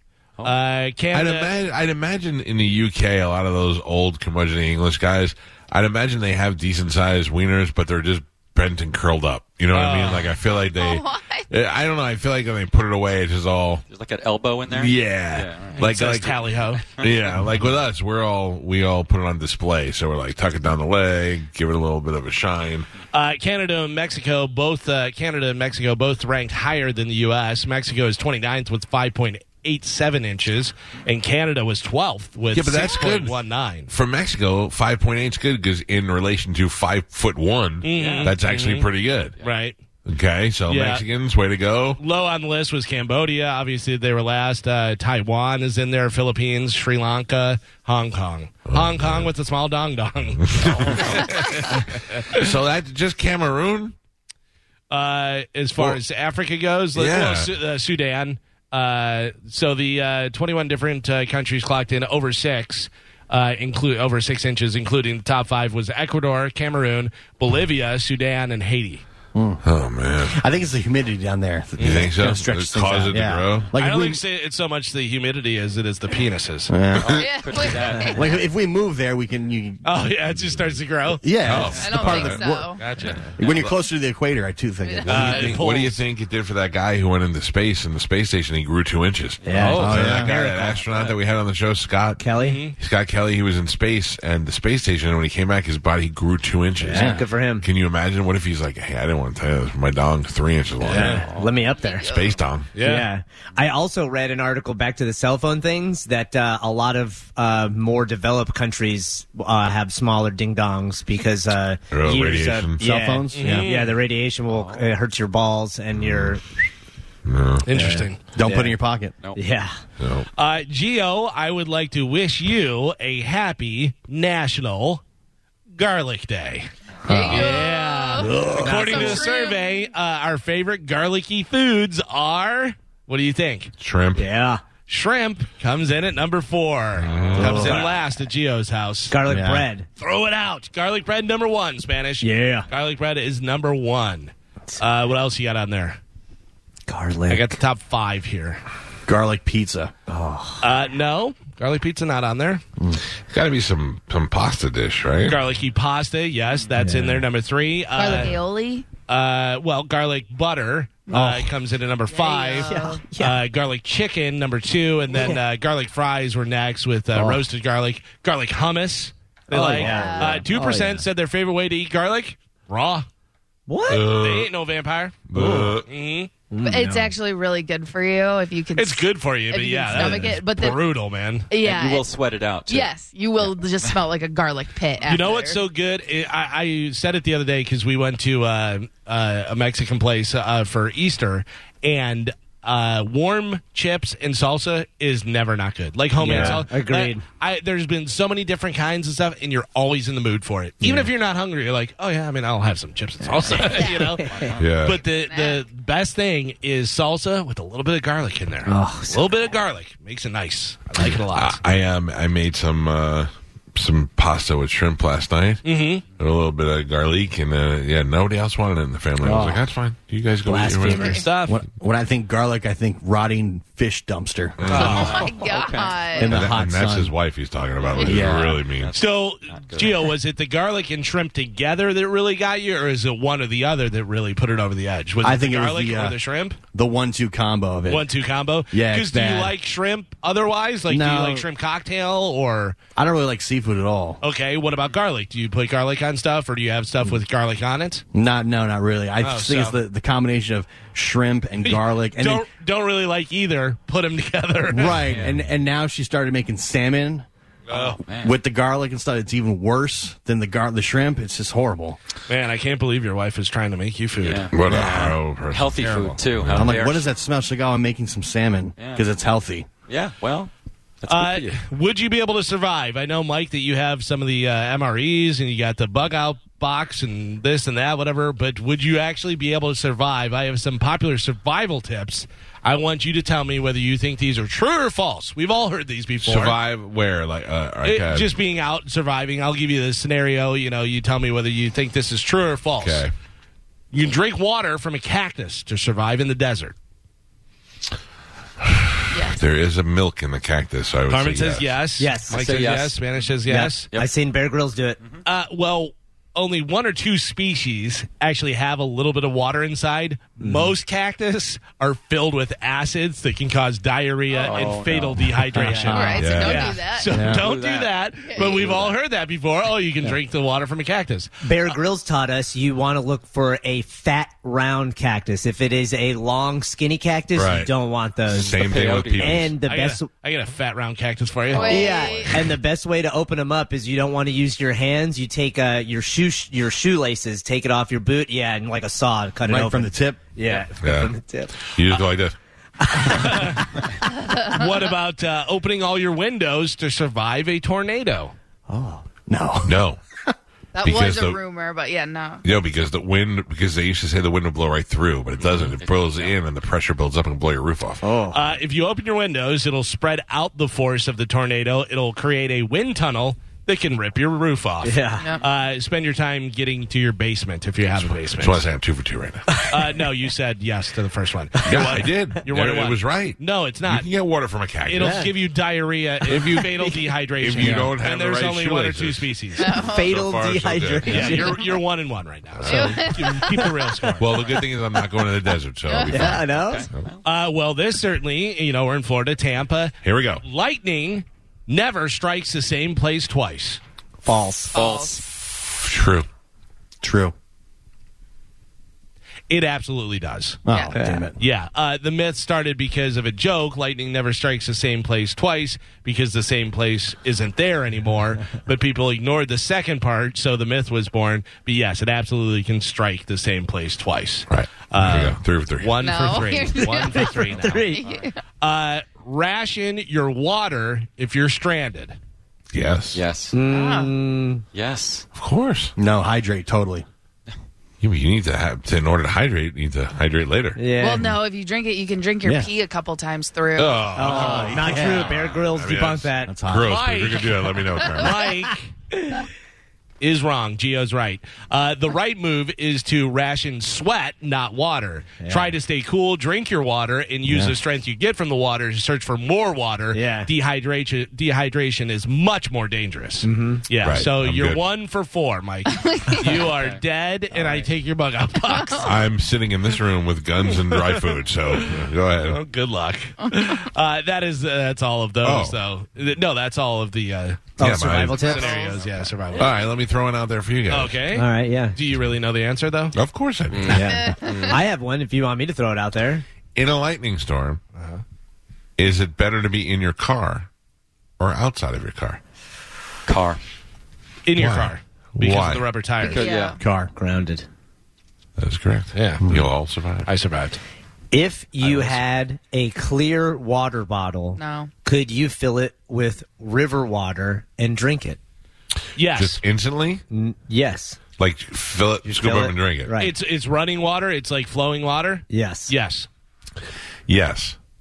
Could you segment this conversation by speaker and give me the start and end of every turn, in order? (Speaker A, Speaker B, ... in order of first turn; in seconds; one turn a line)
Speaker A: 0.4-1.5
Speaker B: 1.1-13.8
Speaker A: 9.7-10.3
Speaker C: 10.6-11.5
Speaker D: 13.9-15.9
Speaker B: 14.7-16.4
Speaker A: 15.8-16.9
Speaker B: 17.0-22.9
Speaker A: 23.1-33.9
Speaker B: 32.5-39.4
Speaker A: 37.8-38.9
Speaker D: 37.9-38.4
Speaker A: 39.4-39.8
Speaker B: 40.1-42.0
Speaker A: 40.7-41.0
Speaker A: 42.0-52.2
Speaker B: 48.7-49.3
Speaker B: 50.4-54.0
Speaker A: 54.9-69.0
Speaker B: 56.9-57.5
Speaker E: 69.3-69.6
Speaker B: 69.6-70.4
Speaker E: 70.2-74.2
Speaker B: 71.8-73.7
Speaker A: 71.8-72.0
Speaker A: 73.8-76.7
Speaker E: 76.7-77.2
Speaker D: 76.9-78.4
Speaker C: 77.1-78.3
Speaker E: 78.2-79.8
Speaker A: 79.8-81.2
Speaker E: 81.2-82.7
Speaker B: 81.4-82.7
Speaker C: 81.7-82.8
Speaker A: 82.8-83.2
Speaker D: 82.8-83.7
Speaker E: 83.4-85.5
Speaker C: 84.8-85.5
Speaker A: 85.1-86.0
Speaker B: 85.1-92.2
Speaker F: 89.4-90.6
Speaker A: 89.5-90.5
Speaker E: 89.7-90.3
Speaker F: 92.2-92.6
Speaker A: 92.4-92.8
Speaker B: 92.8-101.2
Speaker F: 96.8-97.7
Speaker E: 96.9-97.2
Speaker F: 100.8-102.1
Speaker C: 101.8-102.3
Speaker B: 102.0-102.7
Speaker A: 102.8-103.1
Speaker F: 102.8-116.4
Speaker B: 111.9-112.8
Speaker E: 112.8-113.7
Speaker A: 113.3-113.9
Speaker D: 114.5-114.9
Speaker B: 116.0-116.4
Speaker B: 117.2-117.7
Speaker A: 117.7-118.2
Speaker F: 117.7-118.8
Speaker E: 118.3-119.1
Speaker F: 119.3-119.8
Speaker B: 120.0-120.3
Speaker A: 120.4-125.0
Speaker A: 125.8-133.7
Speaker C: 127.1-129.8
Speaker F: 127.1-127.5
Speaker B: 127.2-127.4
Speaker F: 128.2-129.3
Speaker B: 133.8-134.2
Speaker F: 134.2-134.6
Speaker A: 134.9-139.2
Speaker B: 136.9-137.8
Speaker E: 137.4-137.8
Speaker F: 137.4-137.9
Speaker F: 139.1-139.9
Speaker E: 139.3-139.7
Speaker A: 140.0-146.0
Speaker F: 142.2-142.7
Speaker F: 146.9-147.5
Speaker A: 147.3-148.6
Speaker E: 149.1-149.9
Speaker F: 150.1-150.6
Speaker A: 150.6-152.6
Speaker B: 153.3-155.4
Speaker A: 155.2-158.4
Speaker F: 156.8-157.3
Speaker C: 157.9-158.9
Speaker A: 159.1-173.1
Speaker F: 161.1-161.4
Speaker C: 162.1-163.0
Speaker F: 162.6-163.4
Speaker F: 169.5-171.0
Speaker C: 169.7-170.5
Speaker F: 173.7-174.1
Speaker B: 173.9-174.5
Speaker A: 174.0-175.2
Speaker B: 175.3-175.9
Speaker F: 175.3-175.8
Speaker A: 175.9-176.3
Speaker F: 176.5-177.2
Speaker C: 176.6-180.8
Speaker A: 178.8-181.5
Speaker F: 179.9-180.4
Speaker C: 181.5-182.1
Speaker D: 181.6-182.9
Speaker C: 182.7-185.6
Speaker A: 185.1-211.6
Speaker F: 196.2-197.2
Speaker F: 200.8-201.1
Speaker F: 203.3-204.5
Speaker D: 203.5-205.0
Speaker C: 203.8-204.0
Speaker B: 204.6-205.0
Speaker C: 205.1-205.6
Speaker F: 208.7-209.3
Speaker B: 211.0-215.6
Speaker A: 215.6-216.0
Speaker B: 216.2-221.3
Speaker F: 219.2-219.6
Speaker F: 220.5-221.2
Speaker C: 220.9-221.2
Speaker A: 221.0-221.6
Speaker E: 221.5-224.6
Speaker B: 224.6-225.3
Speaker D: 224.6-226.3
Speaker A: 224.7-225.1
Speaker C: 224.8-226.4
Speaker E: 226.2-227.1
Speaker B: 226.2-228.9
Speaker D: 227.9-230.2
Speaker E: 228.0-228.6
Speaker A: 228.9-236.6
Speaker E: 235.2-236.2
Speaker E: 236.7-238.1
Speaker A: 237.9-242.8
Speaker E: 238.7-239.5
Speaker E: 240.9-241.4
Speaker E: 243.0-244.2
Speaker A: 244.2-248.0
Speaker E: 248.1-252.5
Speaker A: 249.2-249.8
Speaker A: 251.6-255.0
Speaker E: 254.7-262.0
Speaker D: 255.0-255.4
Speaker D: 257.7-258.4
Speaker A: 262.3-264.5
Speaker D: 264.2-267.1
Speaker B: 264.5-266.8
Speaker E: 266.5-269.7
Speaker D: 268.8-269.1
Speaker D: 269.9-270.5
Speaker D: 271.0-271.6
Speaker A: 271.1-286.6
Speaker B: 286.2-288.3
Speaker A: 287.8-293.1
Speaker B: 292.8-293.1
Speaker A: 293.9-296.7
Speaker B: 298.6-301.8
Speaker C: 299.1-299.4
Speaker A: 301.1-303.9
Speaker F: 302.0-302.5
Speaker D: 302.3-303.0
Speaker F: 303.5-305.0
Speaker A: 305.2-321.3
Speaker F: 310.4-310.7
Speaker D: 314.3-315.7
Speaker F: 315.6-316.1
Speaker E: 315.6-316.2
Speaker C: 315.9-317.1
Speaker B: 316.2-316.8
Speaker E: 317.1-317.5
Speaker D: 317.2-319.0
Speaker C: 318.3-318.7
Speaker F: 321.4-330.1
Speaker B: 327.3-327.7
Speaker B: 328.3-329.6
Speaker D: 328.5-329.4
Speaker A: 329.6-332.4
Speaker C: 331.5-332.4
Speaker F: 331.6-341.6
Speaker E: 339.4-340.2
Speaker B: 340.8-341.1
Speaker B: 341.7-342.4
Speaker F: 342.9-343.6
Speaker A: 343.0-348.3
Speaker C: 344.2-344.6
Speaker E: 348.7-349.8
Speaker B: 349.6-350.0
Speaker C: 350.8-352.4
Speaker B: 350.8-351.4
Speaker B: 352.4-358.0
Speaker D: 355.4-356.4
Speaker F: 358.0-358.4
Speaker A: 358.3-368.6
Speaker F: 364.8-365.3
Speaker C: 365.2-365.4
Speaker B: 367.9-369.6
Speaker A: 369.7-374.1
Speaker B: 371.6-375.3
Speaker A: 374.9-379.7
Speaker F: 374.9-375.3
Speaker B: 376.3-381.5
Speaker F: 376.5-377.9
Speaker C: 379.6-380.1
Speaker F: 379.7-381.7
Speaker A: 381.1-384.6
Speaker B: 382.6-383.1
Speaker C: 382.7-383.7
Speaker F: 383.2-383.4
Speaker B: 384.2-387.1
Speaker C: 385.9-386.3
Speaker F: 386.1-386.9
Speaker D: 386.5-387.2
Speaker A: 387.2-393.8
Speaker B: 390.0-390.4
Speaker F: 394.2-394.7
Speaker C: 394.7-395.2
Speaker D: 394.7-395.2
Speaker B: 395.3-396.3
Speaker E: 397.0-397.3
Speaker A: 399.5-400.6
Speaker E: 400.7-401.4
Speaker C: 400.7-401.0
Speaker F: 400.9-401.3
Speaker A: 401.4-417.9
Speaker B: 414.5-416.1
Speaker C: 416.0-418.4
Speaker F: 417.0-418.1
Speaker D: 418.0-418.3
Speaker A: 418.6-422.2
Speaker B: 422.7-423.2
Speaker D: 423.1-423.5
Speaker F: 423.5-424.6
Speaker C: 423.6-424.1
Speaker D: 424.7-425.3
Speaker B: 425.3-425.9
Speaker E: 426.0-427.1
Speaker B: 428.0-430.8
Speaker F: 430.8-431.4
Speaker C: 431.0-434.2
Speaker E: 432.4-432.7
Speaker B: 433.8-438.4
Speaker F: 434.2-436.5
Speaker E: 434.2-435.4
Speaker E: 436.5-437.0
Speaker A: 436.9-438.9
Speaker A: 440.2-459.2
Speaker F: 445.4-445.8
Speaker F: 447.5-447.7
Speaker F: 450.1-450.5
Speaker F: 453.4-453.9
Speaker B: 454.0-454.8
Speaker C: 455.9-456.6
Speaker D: 456.6-457.0
Speaker C: 458.6-459.1
Speaker B: 459.0-462.6
Speaker A: 460.9-461.2
Speaker A: 462.4-467.7
Speaker B: 465.4-465.8
Speaker F: 467.8-468.9
Speaker B: 467.8-468.6
Speaker A: 468.4-469.7
Speaker C: 468.5-469.0
Speaker B: 469.5-471.2
Speaker A: 470.9-473.2
Speaker F: 471.3-472.0
Speaker B: 473.1-474.1
Speaker D: 473.7-474.8
Speaker F: 473.9-476.4
Speaker C: 474.1-474.7
Speaker B: 476.8-477.8
Speaker A: 478.0-478.2
Speaker B: 479.0-480.7
Speaker B: 481.4-482.4
Speaker D: 483.3-483.6
Speaker A: 484.5-486.5
Speaker B: 484.6-485.9
Speaker C: 486.2-486.8
Speaker D: 486.2-486.8
Speaker E: 486.8-487.1
Speaker F: 487.1-487.7
Speaker B: 488.6-490.3
Speaker A: 489.1-489.5
Speaker A: 490.2-490.8
Speaker F: 491.3-498.4
Speaker C: 494.6-494.9
Speaker A: 499.2-499.6
Speaker B: 499.3-500.2
Speaker F: 500.3-501.2
Speaker B: 501.4-503.1
Speaker F: 502.2-503.3
Speaker A: 503.2-506.3
Speaker F: 505.5-505.9
Speaker B: 507.3-507.8